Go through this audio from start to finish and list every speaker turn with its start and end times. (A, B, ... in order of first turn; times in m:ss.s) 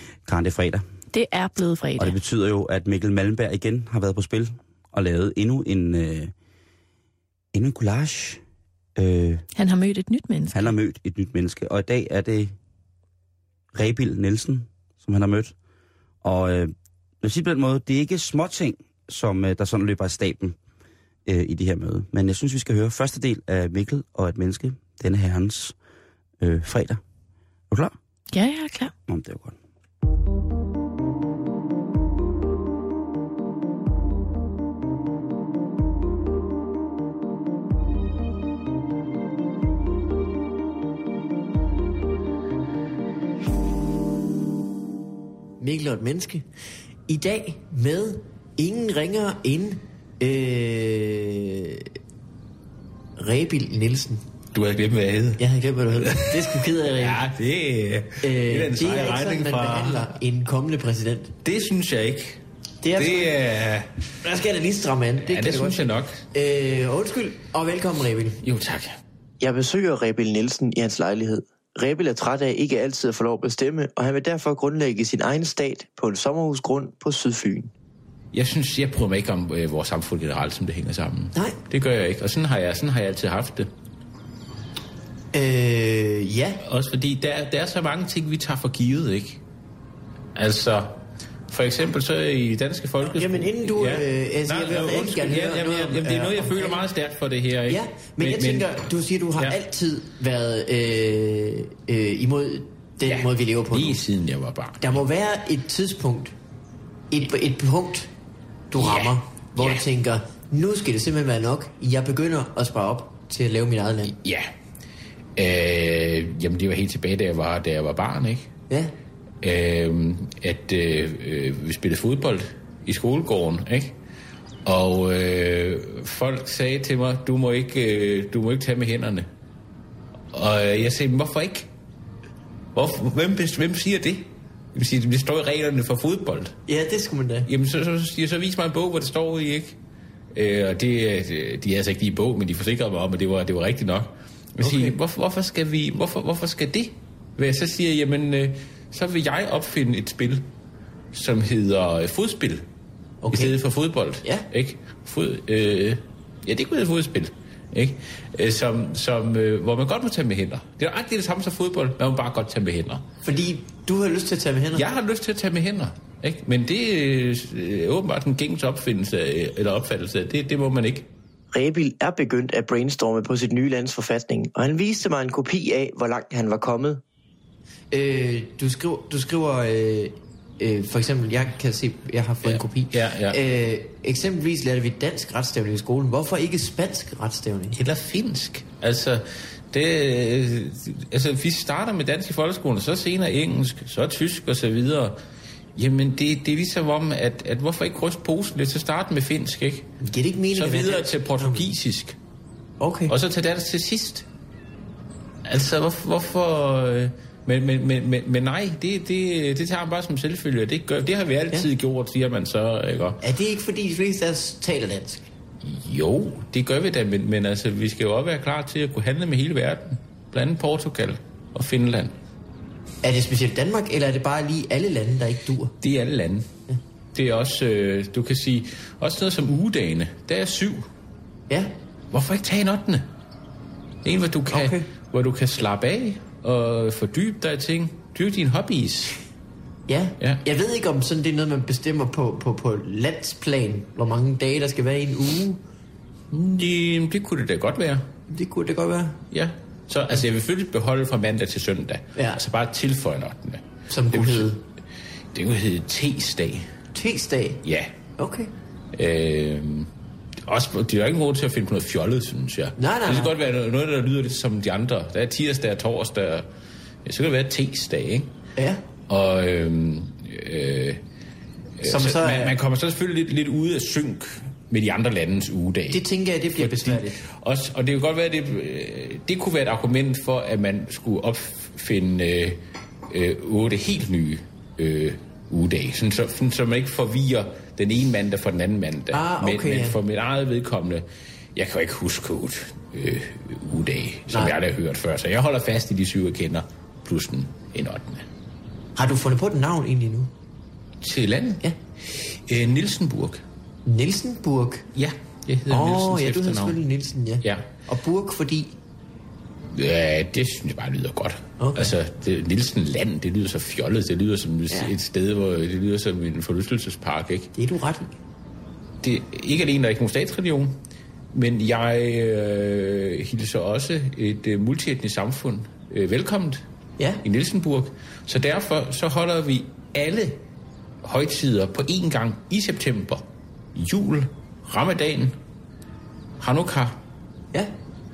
0:00.3-0:00.8 A
0:01.1-0:02.2 B
0:02.0-0:06.3 A
0:07.5-0:08.4 A
0:09.0-0:09.5 A
0:09.6-0:10.7 B
0:10.5-0:12.5 A
0:13.7-0:15.5 A
0:16.2-0:20.6 A
0:21.3-0:25.8 A
0:26.4-0:27.0 A
0:28.3-0:28.9 B
0:29.1-0:29.6 A
0:45.6-0:46.4 C
0:47.1-0:51.9 C
0:53.2-0:54.2 C
0:54.5-0:55.4 D
0:55.4-0:57.2 C
0:56.0-1:00.1 D
0:58.2-1:01.4 C
1:01.4-1:02.4 D
1:02.8-1:03.3 C
1:03.0-1:03.9 D
1:04.2-1:08.4 C
1:05.2-1:06.2 D
1:08.4-1:09.0 D
1:09.4-1:17.7 E
1:18.3-1:23.7 D
1:25.3-1:26.6 C
1:26.6-1:29.4 D
1:30.4-1:31.0 D
1:31.5-1:38.8 D
1:33.0-1:36.8 C
1:37.7-1:44.0 C
1:43.1-1:45.0 D
1:44.8-1:46.3 C
1:47.1-1:48.1 C
1:48.7-1:54.2 C
1:48.8-1:49.8 D
1:54.1-1:54.5 D
1:55.4-1:58.5 D
1:59.4-2:04.0 D
2:04.6-2:09.3 D
2:10.3-2:11.7 D
2:12.8-2:16.6 D
2:16.7-2:17.5 C
2:17.4-2:19.8 D
2:20.3-2:30.4 D
2:24.6-2:25.0 C
2:31.1-2:32.6 D
2:33.2-2:33.5 C
2:33.3-2:43.1 D
2:43.2-2:44.9 C
2:44.7-2:51.1 D
2:51.5-2:57.0 E
2:57.9-3:07.8 C
3:02.4-3:03.4 D
3:07.7-3:15.2 D
3:15.8-3:19.9 D
3:20.0-3:21.7 C
3:20.5-3:22.2 D
3:22.8-3:23.1 C
3:23.1-3:24.3 D
3:25.4-3:33.2 D
3:33.2-3:35.3 C
3:35.6-3:42.2 D
3:43.0-3:45.8 C
3:45.8-3:46.5 D
3:47.1-3:50.9 D
3:51.5-3:51.7 C
3:52.1-3:53.1 D
3:54.0-3:59.2 D
3:54.5-3:54.9 C
3:59.9-4:05.6 C
4:06.3-4:08.0 D
4:08.3-4:09.2 C
4:09.3-4:14.6 D
4:13.9-4:14.6 C
4:15.3-4:16.7 D
4:16.9-4:17.6 C
4:17.6-4:17.9 D
4:18.2-4:18.5 C
4:18.9-4:19.9 D
4:20.5-4:26.5 D
4:22.8-4:23.3 C
4:27.0-4:28.3 D
4:28.6-4:28.8 C
4:29.1-4:31.0 D
4:31.8-4:36.0 D
4:31.8-4:32.6 C
4:35.9-4:37.2 C
4:36.6-4:58.3 D
4:49.1-4:50.0 C
4:54.3-4:54.6 C
4:59.0-5:00.3 C
5:01.0-5:03.4 D
5:03.8-5:04.9 C
5:04.9-5:06.8 D
5:05.7-5:08.7 C
5:07.4-5:07.7 D
5:09.7-5:17.5 D
5:11.6-5:12.0 C
5:17.5-5:18.2 C
5:19.0-5:20.8 D
5:21.3-5:26.6 D
5:27.2-5:30.4 D
5:31.0-5:35.4 D
5:36.4-5:37.0 D